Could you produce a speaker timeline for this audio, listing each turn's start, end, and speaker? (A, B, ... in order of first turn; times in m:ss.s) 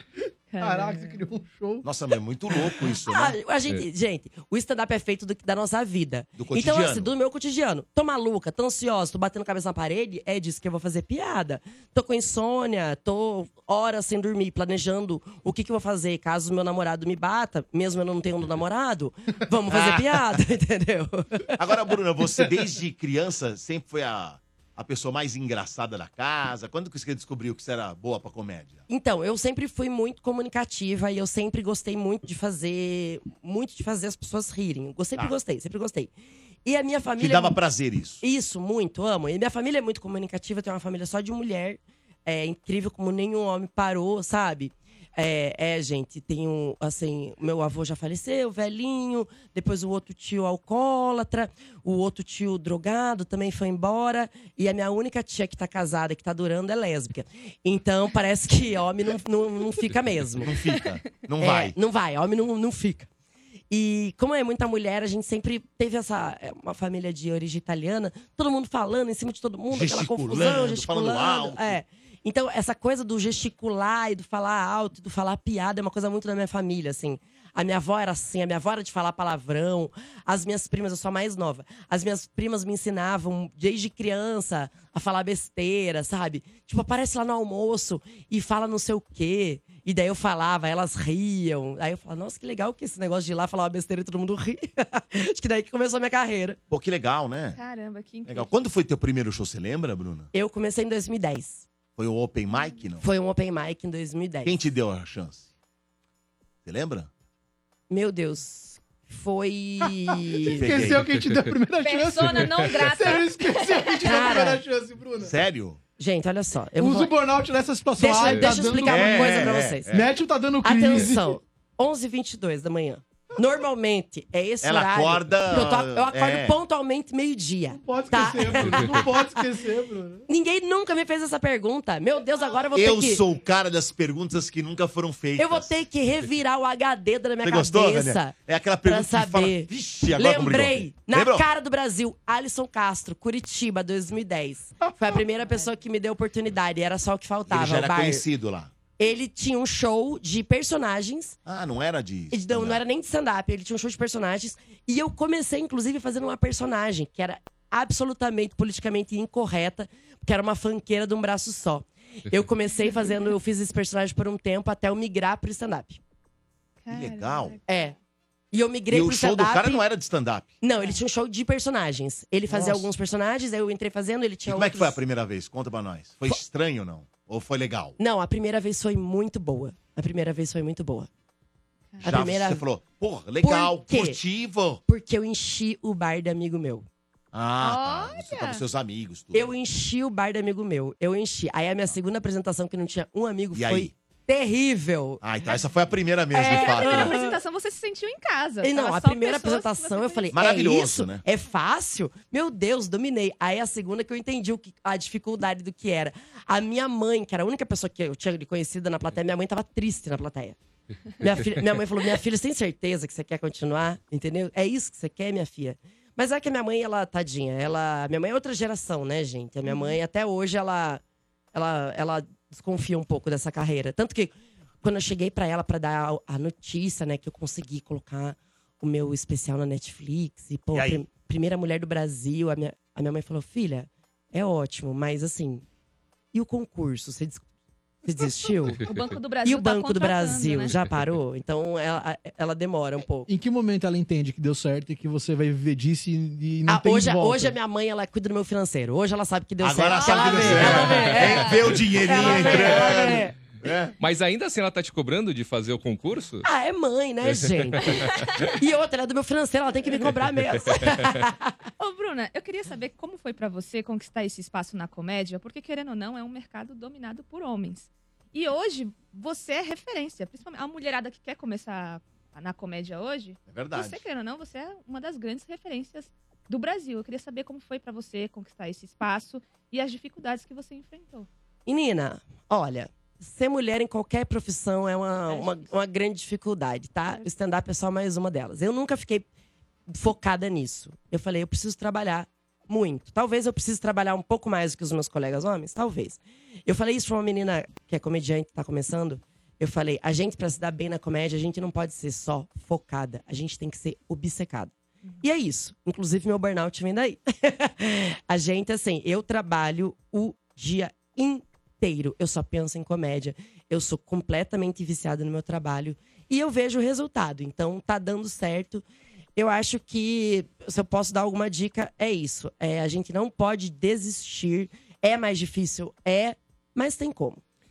0:00.5-0:01.2 A
0:00.6-0:01.9 B
0:01.8-0:03.4 C
0:03.1-0:21.5 D
0:06.4-0:07.2 C
0:19.7-0:20.2 C
0:21.6-0:28.8 C
0:28.9-0:36.1 D
0:36.6-0:37.6 D
0:37.2-0:38.2 C
0:38.2-1:00.6 D
1:00.4-1:01.8 C
1:00.6-1:00.9 A
1:01.4-1:03.1 D
1:03.7-1:36.6 D
1:09.7-1:11.8 C
1:36.7-1:37.6 C
1:37.6-1:38.5 A
1:38.3-1:40.3 C
1:40.3-1:41.7 D
1:42.0-1:43.1 C
1:43.0-1:44.6 D
1:44.4-1:45.5 C
1:46.6-1:47.1 C
1:47.9-1:50.8 D
1:50.4-1:55.4 B
1:50.5-1:51.1 C
1:51.8-1:54.2 A
1:54.0-1:54.6 D
1:55.2-1:55.8 C
1:56.0-1:57.1 D
1:56.8-2:01.3 B
1:58.0-1:59.9 D
1:58.8-2:00.1 C
2:00.6-2:09.4 D
2:04.6-2:06.6 C
2:07.7-2:10.3 B
2:10.3-2:13.2 D
2:12.7-2:15.8 C
2:15.4-2:28.3 D
2:17.4-2:21.5 C
2:27.5-2:28.7 C
2:29.0-2:31.4 D
2:31.5-2:32.8 C
2:32.3-2:46.0 D
2:46.8-2:47.8 A
2:46.9-2:47.6 C
2:47.7-2:47.9 D
2:48.5-2:49.8 D
2:48.9-2:50.5 C
2:50.6-2:55.0 D
2:52.5-2:52.8 C
2:54.4-2:58.0 C
2:58.0-3:01.1 D
3:01.9-3:02.2 A
3:02.0-3:02.6 D
3:02.0-3:04.8 C
3:03.4-3:04.2 D
3:04.9-3:06.9 D
3:07.3-3:09.5 C
3:07.6-3:08.6 A
3:09.3-3:15.2 D
3:13.5-3:13.9 C
3:15.2-3:17.2 C
3:16.3-3:17.4 D
3:16.3-3:20.3 A
3:18.6-3:30.6 D
3:20.3-3:21.2 C
3:31.2-3:41.0 D
3:39.7-3:40.0 A
3:41.5-3:44.3 D
3:44.8-3:55.6 D
3:50.7-3:51.0 C
3:56.3-3:57.5 D
3:58.0-3:58.8 D
3:58.2-4:00.8 A
3:59.4-4:03.3 D
4:03.3-4:07.6 B
4:06.7-4:13.3 D
4:09.6-4:14.0 C
4:09.9-4:13.0 A
4:14.0-4:16.5 E
4:16.4-4:21.6 D
4:17.3-4:18.5 E
4:21.8-4:41.3 A
4:33.5-4:34.0 C
4:41.7-4:49.3 D
4:45.3-4:45.7 A
4:49.9-5:18.8 D
5:19.4-5:27.4 D